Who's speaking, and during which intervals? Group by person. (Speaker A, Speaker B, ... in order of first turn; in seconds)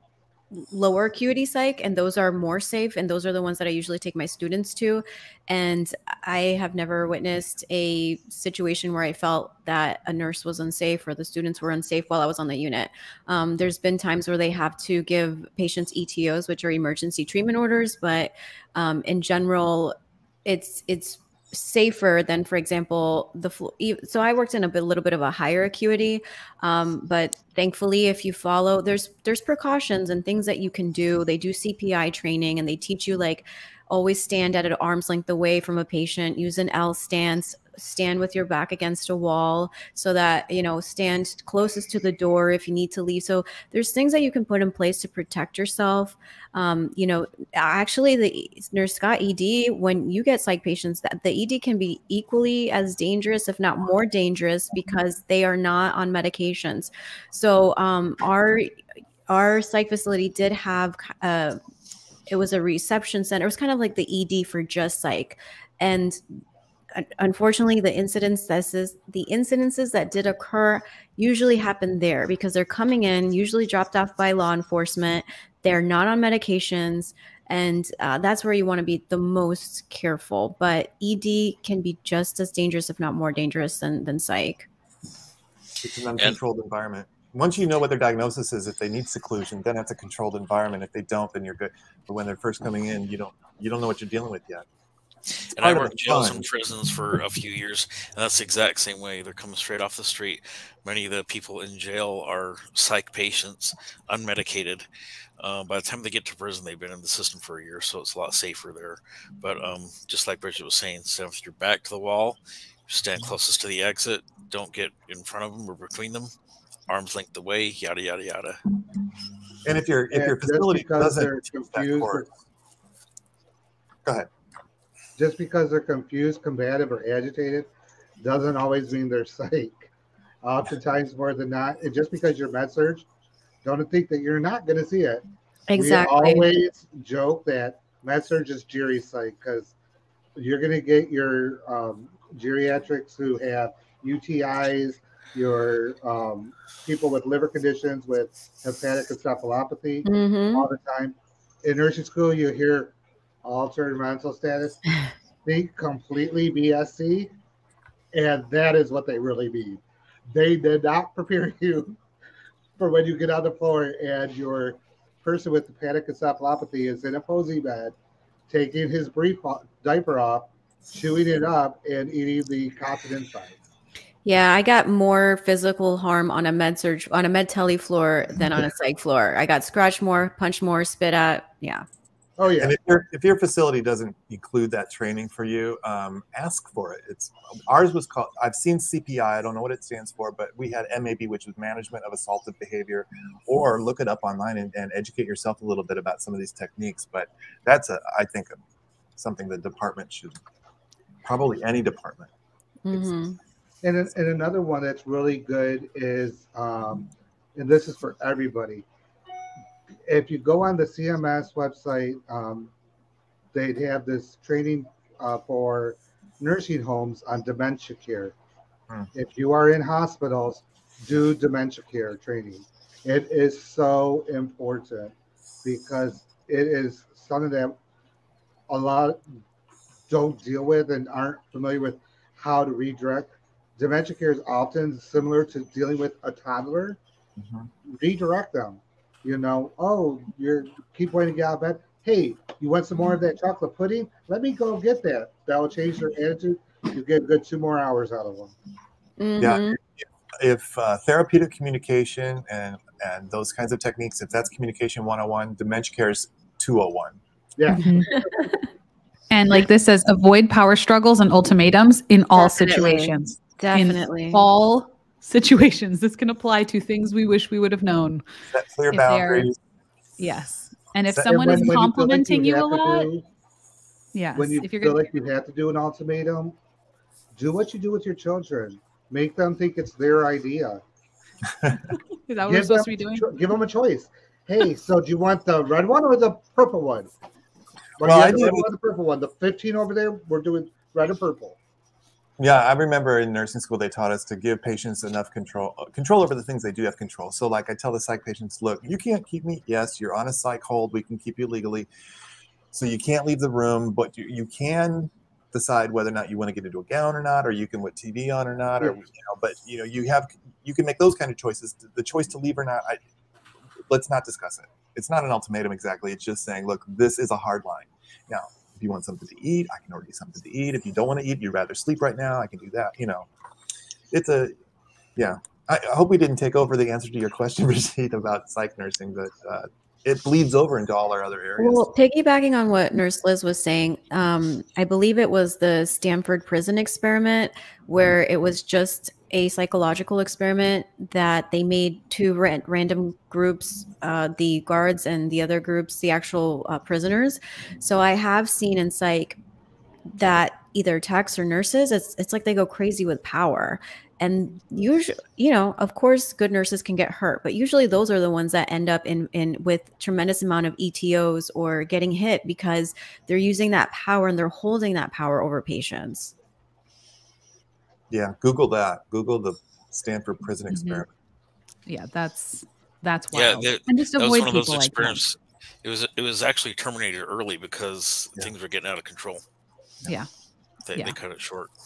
Speaker A: 0.5-61.6, 62.3-66.2, 66.9-84.7, 135.7-136.5, 150.1-150.7, 174.2-181.8, 202.8-203.4, 249.2-249.8, 262.4-264.5, 331.6-349.4, 350.1-366.3
Speaker B: 85.8-94.7, 95.5-96.5, 119.7-122.3, 182.6-198.6, 199.2-200.4, 201.2-202.3, 237.4-237.7, 249.4-257.2, 268.5-269.6, 271.1-271.7, 288.0-288.7, 292.4-301.9, 302.7-313.0, 313.9-323.3, 324.1-324.6, 325.2-331.9, 368.1-371.1
Speaker C: 95.5-104.9, 105.4-116.3, 116.9-118.6, 373.3-379.4, 380.9-381.7
Speaker D: 120.1-122.3, 125.2-129.9, 130.4-133.1, 133.6-135.2, 135.8-139.7, 140.3-154.9, 155.4-157.3, 158.1-162.0, 162.8-167.9, 168.5-173.6, 182.4-182.8, 203.8-208.8, 210.1-212.7, 213.5-218.3, 219.1-227.8, 228.7-229.2, 230.1-237.0, 237.9-248.5, 257.6-258.5, 271.2-273.2, 274.4-276.6, 277.3-280.8, 282.5-287.1, 288.0-291.6
Speaker E: 257.7-258.1, 259.3-268.2, 268.9-269.5, 270.2-273.1, 274.1-275.0, 282.3-283.3, 370.7-371.0, 371.9-375.2